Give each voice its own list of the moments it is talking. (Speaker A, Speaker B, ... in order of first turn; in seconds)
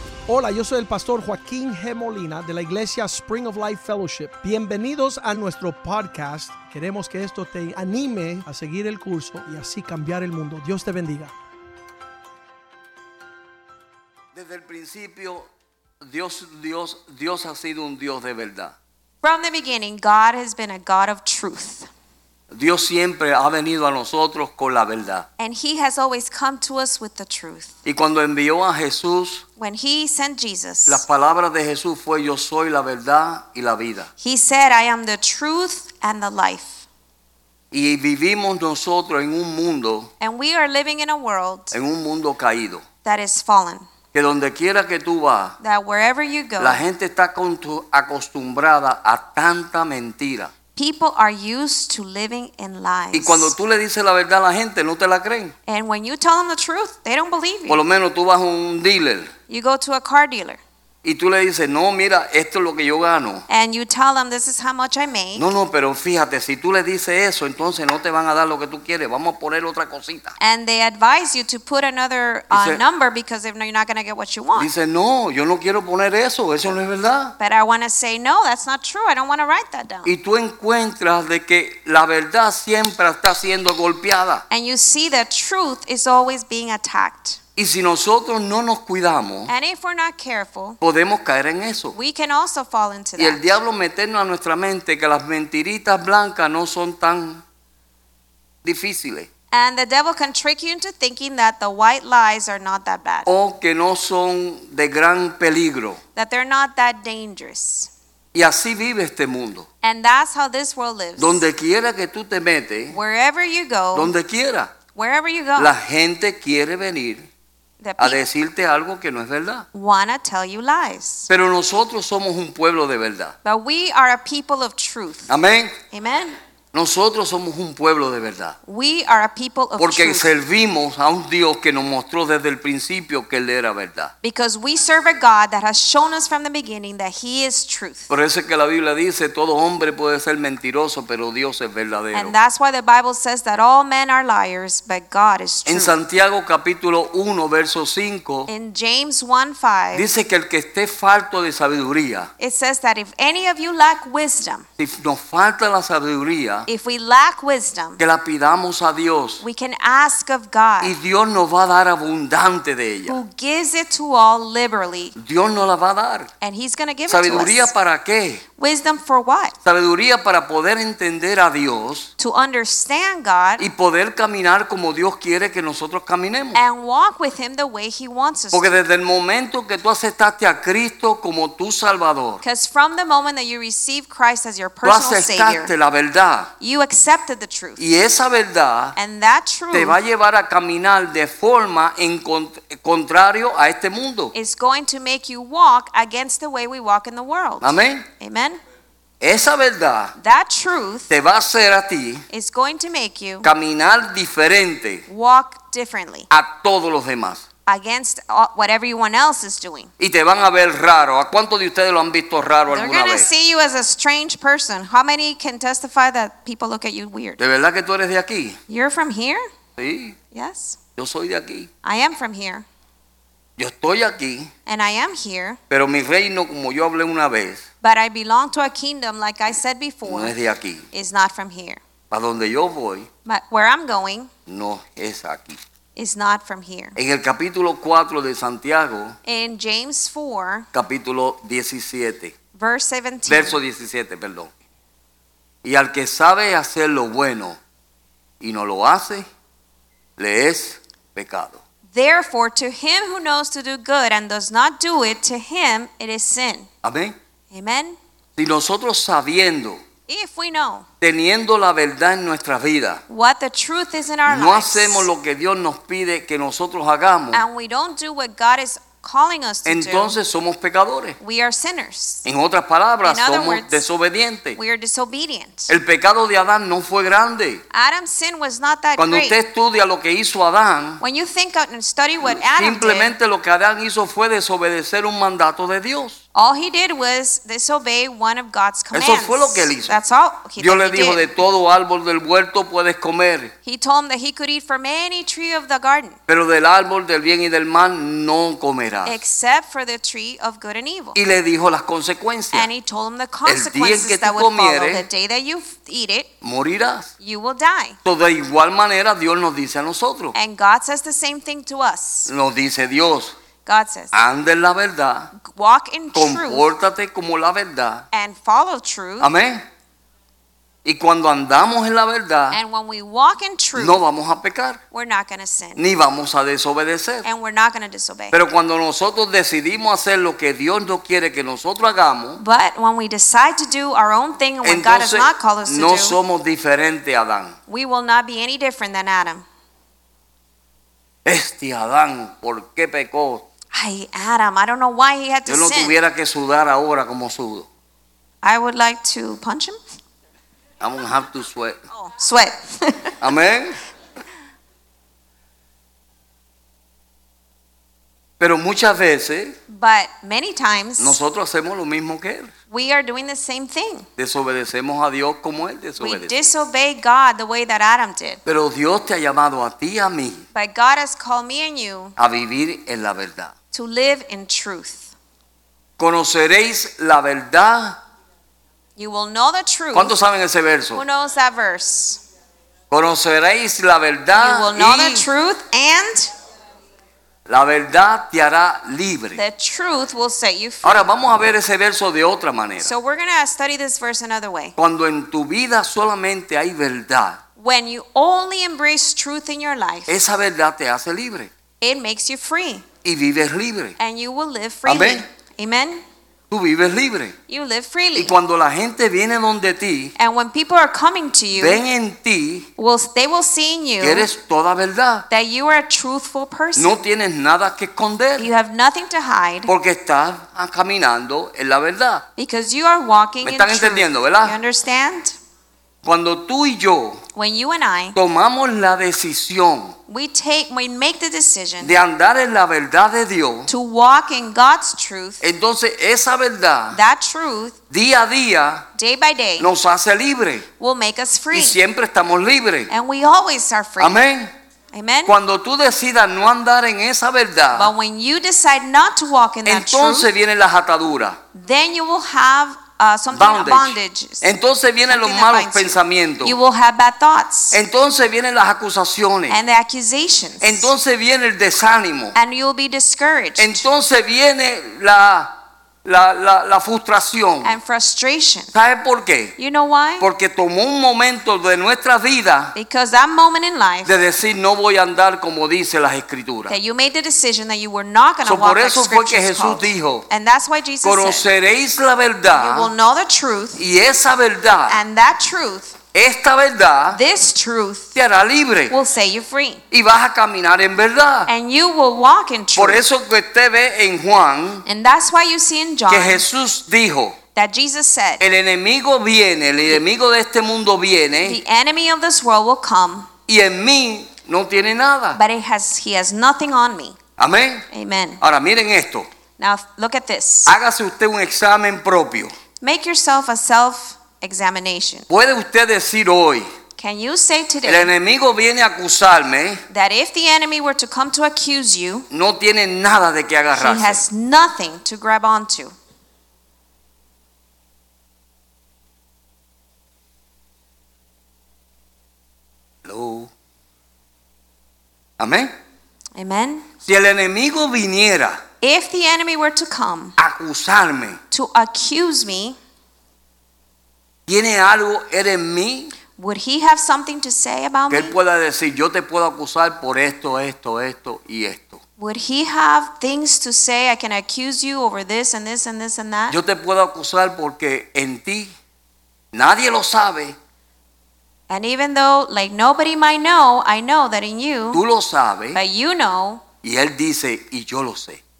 Speaker A: 0.3-11.3
Speaker B: 14.3-15.5, 16.0-18.7, 22.5-25.3, 27.8-29.4, 30.9-34.1, 37.7-40.1, 41.7-42.8, 44.1-45.6, 46.6-50.5, 53.1-55.5, 57.7-59.3, 61.0-63.4, 65.3-70.3, 72.5-72.8, 74.5-77.3, 80.0-84.4, 87.5-89.5, 90.8-92.0, 93.2-97.4, 98.6-99.3, 103.2-106.0, 108.3-109.7, 111.2-113.0, 113.9-114.7, 115.6-117.2, 118.0-119.7, 121.3-123.3, 125.3-125.7, 126.7-128.6, 129.8-134.1, 138.1-142.3, 145.7-148.5, 149.9-152.3, 154.8-156.7, 158.0-159.4, 160.8-163.2, 165.1-166.3, 167.1-168.4, 169.6-172.1, 173.6-176.6, 178.5-182.4, 184.8-186.5, 187.8-188.9, 189.7-194.3, 197.6-198.1, 199.2-200.1, 201.1-202.2, 203.4-205.0, 206.3-207.4, 210.0-213.3, 217.4-218.6, 219.8-220.2, 221.0-221.7, 223.6-224.5, 225.7-227.6, 230.0-230.9, 232.1-233.1, 234.5-235.6, 236.9-239.2, 240.7-242.3, 243.3-244.5, 245.6-247.6, 248.4-249.2, 250.2-251.6, 256.8-257.1, 258.4-259.8, 261.0-263.0, 264.3-267.4, 269.6-271.2, 272.2-274.6, 275.7-277.6, 279.0-281.0, 282.2-286.2, 288.9-289.9, 290.6-293.5, 296.3-299.2, 301.1-302.7, 303.4-305.1, 306.4-307.1, 308.0-310.3, 312.3-313.3, 314.1-315.3, 316.1-318.1, 319.2-319.6, 320.8-322.6, 323.8-324.8, 325.8-327.2, 328.3-332.4, 334.6-337.6, 341.2-343.4, 345.5-347.7, 350.8-351.8, 353.2-353.8, 358.4-359.6, 361.0-362.5, 364.2-366.5, 368.4-370.4, 372.2-373.5, 376.0-378.0, 379.9-381.0, 382.9-385.3, 387.5-389.4, 390.8-392.9, 394.8-397.4, 400.1-401.5, 403.0-404.0, 404.9-405.2, 406.5-407.3, 408.1-410.1, 411.6-412.7, 414.0-415.3, 416.8-418.5, 419.7-422.2, 423.4-424.6, 426.0-427.2, 428.1-429.9, 431.8-433.7, 435.4-437.0, 437.9-438.9, 439.6-440.6, 441.5-442.9, 444.0-444.5, 445.2-447.9, 449.6-451.4, 453.3-456.6, 457.7-459.6, 460.6-462.3, 463.6-467.8, 468.7-469.5, 470.2-472.7, 474.1-476.7, 478.4-480.2, 481.0-482.9, 483.8-485.0, 486.1-487.2, 488.1-488.9, 489.9-491.5, 492.8-494.8, 496.1-497.4, 498.4-501.6, 503.5-505.4, 507.4-507.9, 508.4-509.3, 510.6-512.5, 515.3-516.7, 517.8-519.8, 522.3-524.2, 533.0-533.5, 535.4-535.7, 537.0-538.6, 540.4-541.4, 544.5-546.1, 548.1-552.0, 556.5-558.7, 559.5-560.6, 564.9-565.8, 566.8-568.4
Speaker C: 19.2-21.9, 25.4-27.7, 29.6-31.0, 34.2-36.8, 40.2-41.7, 43.0-43.9, 45.6-46.8, 50.8-53.5, 55.7-57.8, 59.5-60.6, 63.5-65.5, 70.4-74.7, 77.4-80.1, 84.5-87.4, 89.5-90.8, 91.9-93.5, 99.5-103.3, 106.2-107.9, 109.8-111.4, 112.9-114.1, 114.9-115.8, 117.8-118.2, 119.7-121.3, 123.4-125.3, 125.9-126.3, 128.7-130.3, 134.2-138.1, 142.1-146.0, 148.5-150.1, 152.4-154.7, 156.7-158.0, 159.4-161.0, 163.1-165.1, 166.4-167.7, 168.6-169.6, 172.2-173.7, 176.5-178.8, 182.4-185.7, 186.6-187.8, 188.9-190.0, 194.3-198.6, 200.2-201.1, 202.3-203.5, 205.1-206.3, 207.7-209.9, 212.7-217.4, 218.7-219.4, 220.3-220.8, 221.8-222.7, 224.7-225.6, 227.8-230.3, 230.9-231.8, 233.2-234.3, 235.9-237.0, 239.2-240.7, 242.6-243.6, 251.9-256.7, 257.5-258.0, 260.1-260.9, 263.1-265.1, 267.3-270.2, 271.2-272.2, 273.0-273.8, 274.6-275.7, 277.7-279.4, 281.0-283.1, 286.3-291.2, 293.6-296.2, 299.0-301.2, 302.5-306.3, 307.2-308.0, 310.3-312.3, 313.6-314.1, 315.3-316.7, 318.1-319.3, 322.5-324.0, 324.9-325.8, 327.2-328.4, 332.4-336.2, 337.7-339.4, 343.7-345.9, 348.4-349.8, 351.9-353.2, 359.7-361.2, 362.7-364.1, 366.0-368.4, 370.5-372.1, 373.7-375.1, 379.0-380.1, 380.9-382.2, 384.3-386.3, 389.4-391.1, 392.8-394.7, 397.6-400.2, 401.8-402.9, 404.0-406.0, 407.5-408.3, 410.2-411.8, 412.8-414.3, 415.3-416.9, 418.4-419.7, 422.4-425.4, 427.3-428.2, 430.1-432.0, 433.7-435.4, 436.9-437.8, 438.9-439.7, 440.8-441.8, 442.9-444.2, 444.9-445.3, 447.7-450.3, 451.5-454.4, 455.1-457.8, 459.5-460.9, 462.3-463.9, 467.6-468.7, 469.6-470.3, 472.7-474.1, 476.7-481.4, 482.5-483.8, 484.9-486.0, 487.1-488.2, 488.9-489.8, 491.5-493.0, 494.9-496.4, 497.5-498.4, 501.4-503.3, 505.4-507.2, 507.9-508.4, 509.6-510.7, 512.8-515.3, 517.0-518.1, 519.9-522.2, 523.7-525.9, 536.4-536.9, 538.8-540.4, 541.5-542.8, 546.4-548.4, 552.2-556.6, 561.7-565.0, 565.7-566.6